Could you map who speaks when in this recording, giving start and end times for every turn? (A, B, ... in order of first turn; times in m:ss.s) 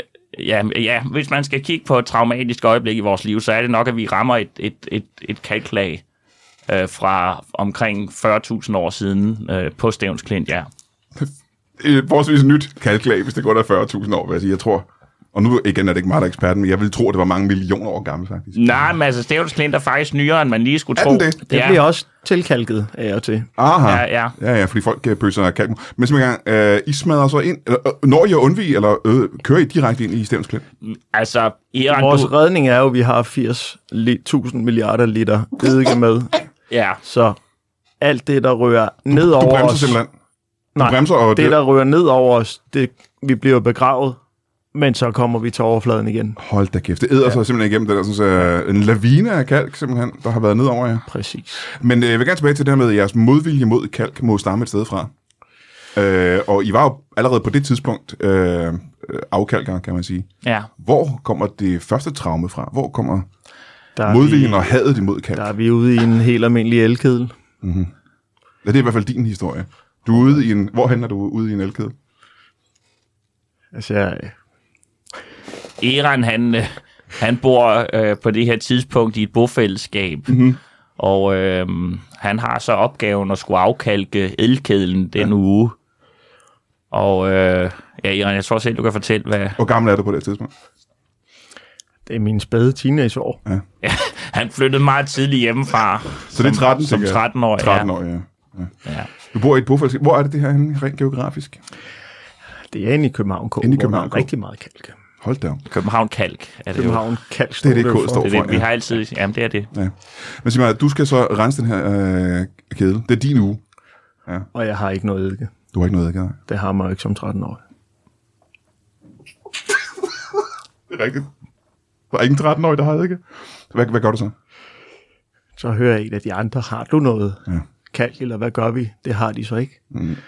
0:00.3-0:06.0 A
0:06.7-0:10.7 A
0:11.8-0:18.8 B
0:18.5-0:21.8 A
0:21.0-0:21.4 B
0:21.5-0:23.5 C
0:23.6-0:30.6 B
0:23.8-0:24.4 A
0:30.8-0:32.3 A
0:31.9-0:36.4 C
0:36.7-0:37.0 A
0:37.0-0:37.4 C
0:38.0-0:40.0 C
0:39.1-0:40.1 B
0:40.7-0:44.2 C
0:40.8-0:41.6 B
0:44.7-0:46.4 C
0:46.4-0:51.0 B
0:51.1-0:51.6 C
0:51.8-0:55.1 B
0:56.0-1:03.3 B
1:00.4-1:00.7 A
1:04.0-1:04.7 C
1:04.0-1:05.5 B
1:05.3-1:07.3 C
1:07.6-1:07.9 B
1:08.6-1:11.9 B
1:13.7-1:14.4 C
1:15.8-1:25.8 A
1:20.3-1:20.6 B
1:26.9-1:29.6 A
1:29.6-1:30.5 B
1:32.1-1:33.4 C
1:33.8-1:37.9 A
1:36.3-1:38.7 B
1:38.8-1:39.1 A
1:39.3-1:41.6 B
1:42.7-1:45.0 C
1:43.6-1:44.3 B
1:45.2-1:45.6 B
1:45.7-1:47.0 A
1:46.7-1:48.4 C
1:47.6-1:48.7 B
1:48.2-1:49.7 A
1:49.7-1:53.6 B
1:54.5-1:55.5 C
1:55.7-1:56.4 B
1:56.5-1:57.6 C
2:00.9-2:01.3 B
2:02.1-2:04.3 B
2:05.6-2:09.8 C
2:09.9-2:10.2 B